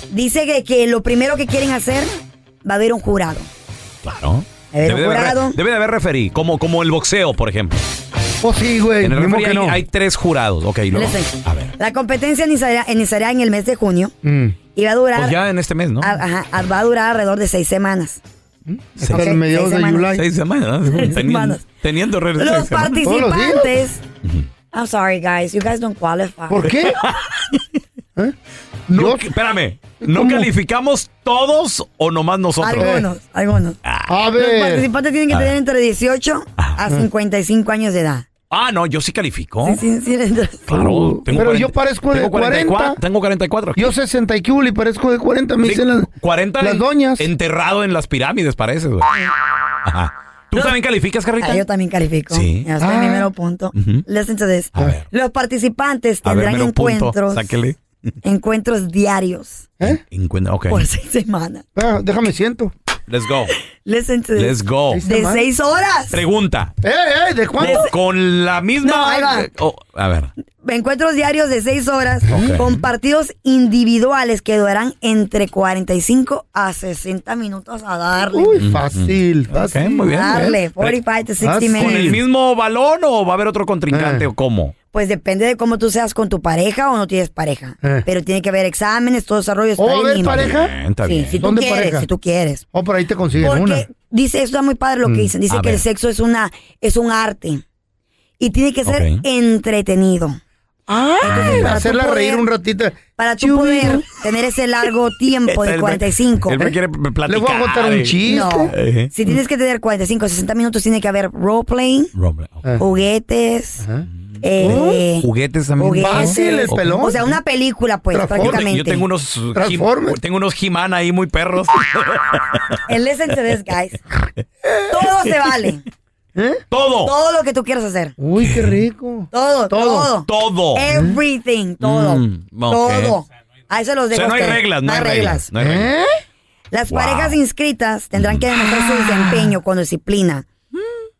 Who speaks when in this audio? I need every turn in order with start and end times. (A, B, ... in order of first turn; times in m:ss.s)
0:00.1-0:03.5 A
0:04.0-0:07.8 B
0:04.7-0:05.6 A
0:08.4-0:09.8 C
0:09.0-0:11.7 B
0:10.9-0:14.1 A
0:14.2-0:14.6 C
0:14.7-0:15.4 A
0:15.2-0:16.2 B
0:16.0-0:18.2 A
0:18.7-0:20.2 C
0:19.0-0:19.4 B
0:19.0-0:20.1 A
0:20.2-0:23.1 B
0:20.9-0:21.6 A
0:22.4-0:24.0 A
0:23.0-0:23.7 C
0:24.7-0:27.1 A
0:26.5-0:27.0 C
0:28.9-0:29.3 C
0:28.9-0:33.0 B
0:30.0-0:30.5 C
0:32.6-0:33.8 A
0:32.8-0:33.1 C
0:33.8-0:34.1 B
0:34.1-0:34.9 C
0:34.4-0:38.3 A
0:38.5-0:39.8 B
0:39.6-0:40.8 A
0:40.7-0:43.9 B
0:40.7-0:43.0 C
0:43.8-0:47.3 C
0:45.6-0:49.1 B
0:49.8-0:51.6 B
0:51.4-0:57.5 A
0:52.3-0:52.7 B
0:52.8-0:53.3 C
0:53.7-0:54.0 B
0:54.7-0:55.1 B
0:56.2-0:57.8 B
0:58.2-0:59.7 A
0:59.9-1:00.9 B
1:00.7-1:01.6 A
1:01.8-1:02.7 C
1:03.1-1:03.6 B
1:03.8-1:06.2 A
1:04.4-1:05.0 B
1:04.9-1:05.5 C
1:06.1-1:06.7 B
1:06.8-1:07.9 C
1:07.6-1:10.3 B
1:07.6-1:07.9 A
1:08.8-1:09.5 A
1:10.6-1:18.6 A
1:12.3-1:12.7 B
1:18.3-1:20.6 C
1:18.6-1:21.0 B
1:20.1-1:22.2 A
1:21.4-1:22.2 C
1:21.7-1:24.7 B
1:23.9-1:24.3 C
1:24.9-1:32.6 A
1:29.8-1:30.7 C
1:30.2-1:31.4 B
1:31.4-1:32.1 C
1:32.7-1:33.8 C
1:33.4-1:37.6 A
1:35.0-1:35.3 C
1:35.5-1:35.8 B
1:38.4-1:40.4 A
1:38.9-1:39.2 B
1:40.9-1:44.1 C
1:41.2-1:42.4 A
1:41.3-1:41.7 B
1:43.2-1:46.6 A
1:45.5-1:49.1 B
1:47.3-1:48.7 C
1:48.3-1:52.1 A
1:52.2-1:52.6 B
1:52.8-1:53.8 A
1:53.8-1:54.1 C
1:54.4-1:57.1 B
1:54.4-1:55.3 A
1:54.6-1:55.0 C
1:55.8-1:59.0 A
1:56.0-1:57.3 C
1:58.1-1:58.7 C
1:58.4-2:02.6 B
1:59.6-2:00.2 C
2:02.9-2:04.0 A
2:04.9-2:05.8 A
2:06.4-2:06.6 C
2:06.7-2:07.1 B
2:07.0-2:08.2 A
2:08.2-2:10.1 C
2:08.4-2:08.7 B
2:09.3-2:15.5 A
2:10.3-2:10.9 B
2:10.9-2:11.2 C
2:11.8-2:13.2 B
2:14.1-2:15.9 B
2:15.6-2:16.1 C
2:16.7-2:20.5 A
2:16.9-2:17.4 B
2:18.2-2:18.5 B